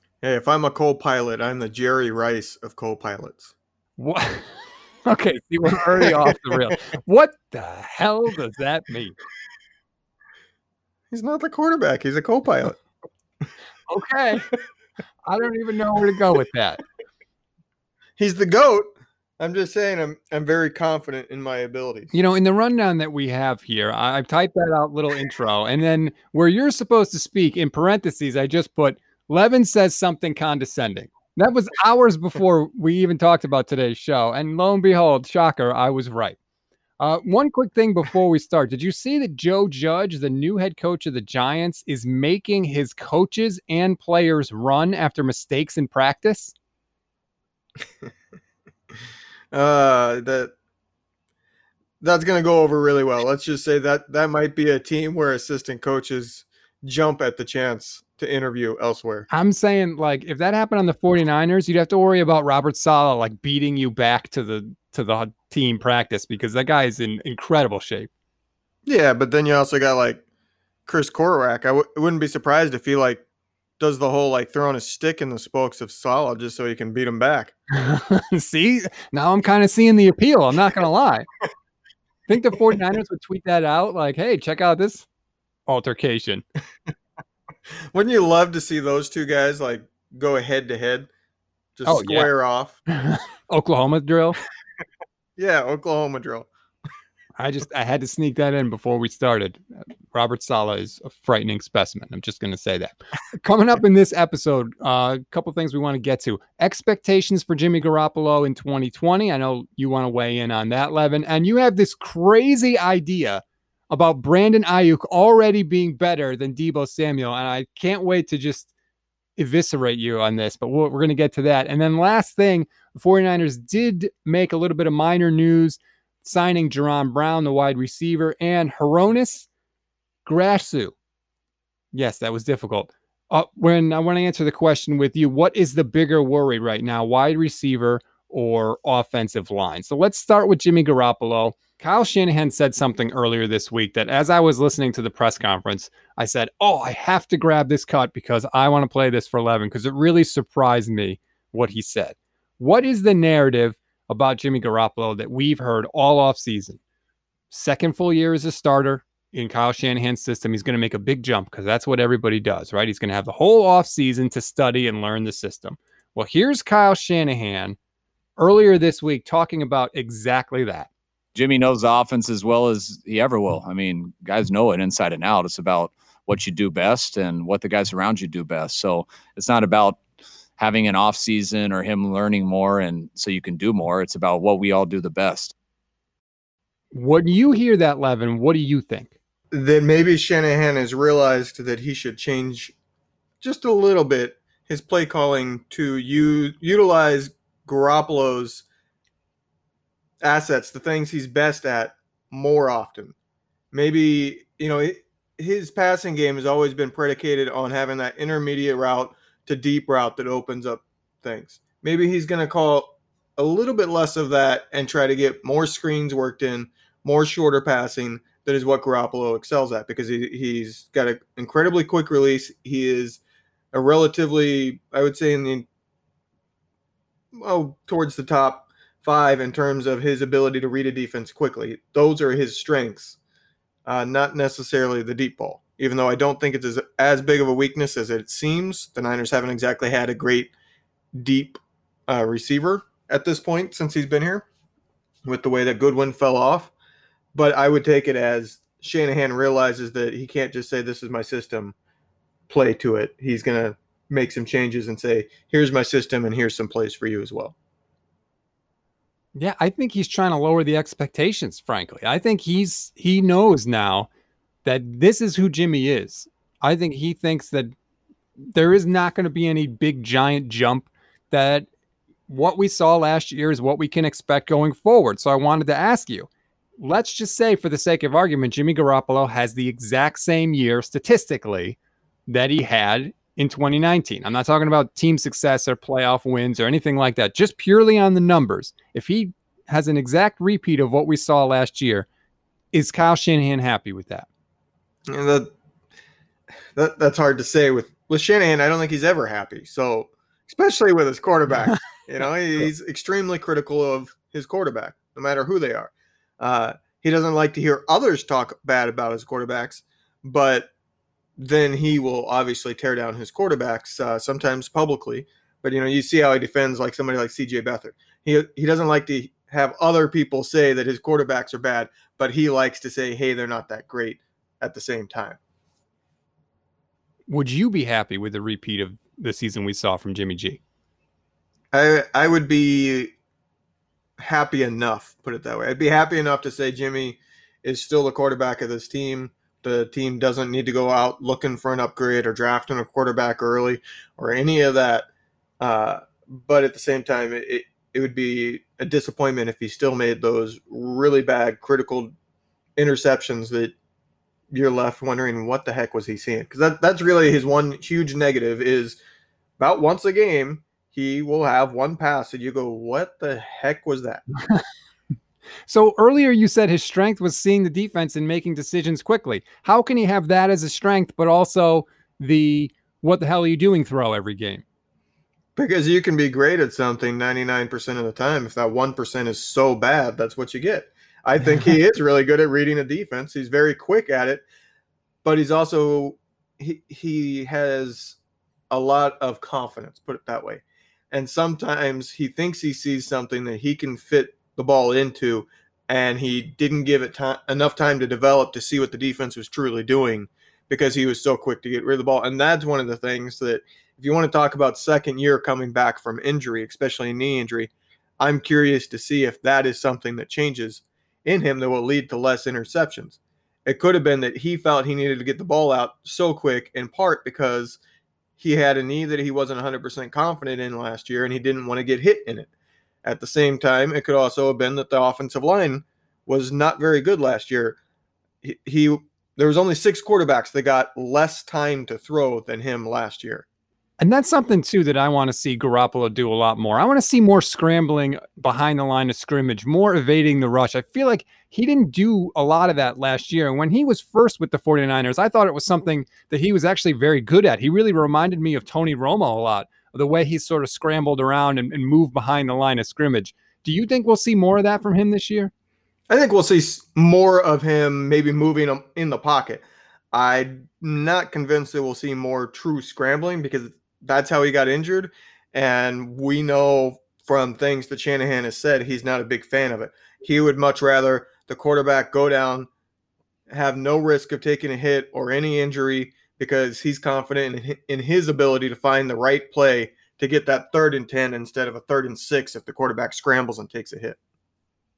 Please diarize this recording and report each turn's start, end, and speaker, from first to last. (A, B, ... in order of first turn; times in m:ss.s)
0:00.2-0:03.5 A
0:04.0-0:09.2 B
0:06.0-0:06.4 A
0:11.1-0:12.8 A
0:13.9-0:14.5 B
0:15.3-0:16.8 B
0:18.2-0:18.9 A
0:19.4-0:22.1 A
0:22.1-0:36.4 B
0:37.0-0:46.6 B
0:49.5-0:50.5 A
0:52.0-0:59.3 A
0:59.3-1:08.1 B
1:08.9-1:10.2 A
1:10.9-1:13.2 A
1:13.8-1:17.5 A
1:17.7-1:21.3 B
1:22.3-1:25.1 B
1:25.7-1:26.4 B
1:27.9-1:31.1 A
1:31.8-1:32.8 A
1:31.9-1:32.3 B
1:32.9-1:34.4 B
1:35.4-1:36.5 A
1:37.4-1:58.7 B
1:59.4-2:09.5 B
2:10.2-2:11.0 B
2:11.9-2:36.8 B
2:37.5-2:47.8 B
2:48.4-2:50.9 B
2:51.4-3:00.0 C
3:00.6-3:05.5 C
3:06.9-3:09.2 B
3:09.5-3:12.8 A
3:13.4-3:18.6 A
3:20.2-3:23.2 A
3:23.7-3:43.2 A
3:43.7-3:45.7 A
3:47.3-3:53.2 A
3:53.9-4:00.5 A
4:01.1-4:04.5 A
4:05.2-4:06.7 A
4:07.3-4:11.8 A
4:12.5-4:17.6 A
4:19.4-4:24.1 B
4:24.6-4:27.7 B
4:28.5-4:31.7 B
4:32.3-4:36.3 B
4:36.8-4:41.8 B
4:42.3-4:52.1 B
4:52.7-4:54.3 B
4:55.1-4:55.5 A
4:56.8-5:10.7 A
5:11.4-5:25.4 A
5:27.3-5:30.6 B
5:31.7-5:33.1 A
5:34.2-5:45.1 A
5:45.6-5:52.1 A
5:52.8-5:53.8 A
5:54.5-5:59.0 A
5:59.6-6:04.2 A
6:05.7-6:14.6 B
6:15.6-6:24.4 A
6:25.2-6:28.2 A
6:28.7-6:57.8 A
6:58.4-7:02.5 A
7:03.0-7:07.8 A
7:08.4-7:13.4 A
7:14.0-7:35.5 B
7:36.1-7:52.7 A
7:53.5-8:04.2 A